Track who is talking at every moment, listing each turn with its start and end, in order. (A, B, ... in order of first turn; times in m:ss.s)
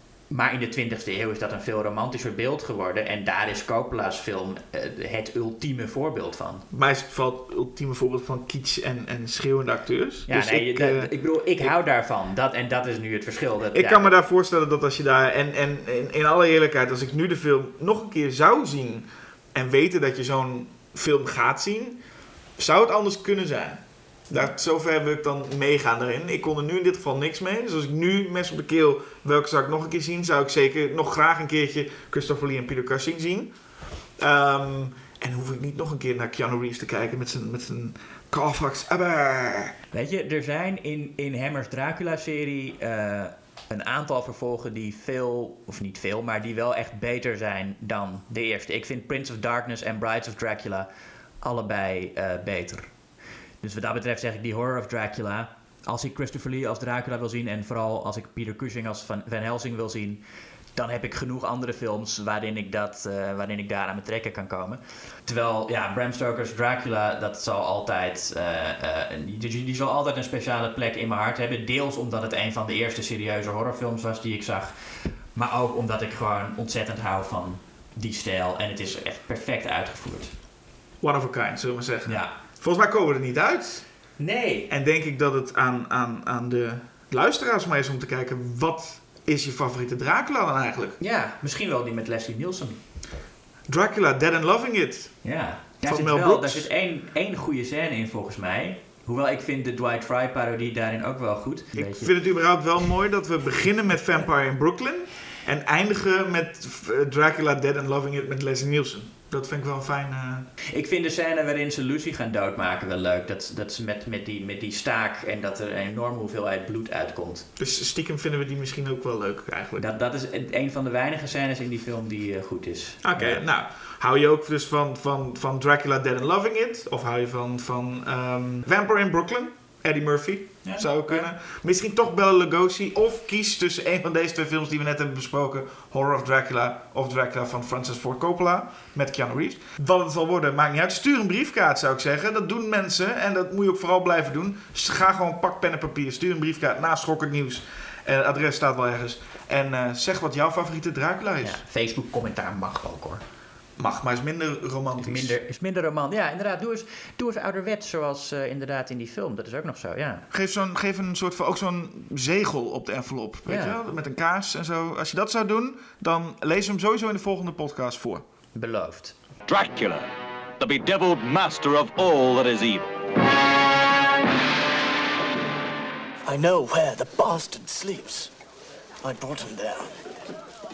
0:00.3-0:06.6 A
0:06.7-0:11.7 B
0:10.3-0:14.1 A
0:13.7-0:22.0 B
0:22.6-0:33.5 B
0:34.2-0:39.8 B
0:39.9-0:50.9 A
0:51.4-0:52.9 A
0:53.6-1:00.2 A
1:00.8-1:14.7 A
1:15.4-1:20.3 A
1:21.0-1:23.8 B
1:22.1-1:22.4 A
1:24.2-1:24.7 A
1:24.7-1:31.0 B
1:31.0-1:32.8 A
1:33.7-1:35.2 B
1:35.2-1:42.1 A
1:35.8-1:36.7 B
1:41.8-1:50.5 B
1:50.7-1:57.5 A
1:57.6-1:59.8 B
1:59.8-2:03.4 A
2:03.0-2:31.6 B
2:10.6-2:11.3 A
2:31.4-2:33.2 A
2:33.8-2:35.4 B
2:35.0-2:40.2 A
2:40.3-2:48.2 B
2:43.5-2:43.8 A
2:48.6-2:49.2 A
2:49.5-2:50.1 C
2:50.6-2:52.9 C
2:56.3-2:58.3 D
2:59.0-2:59.9 D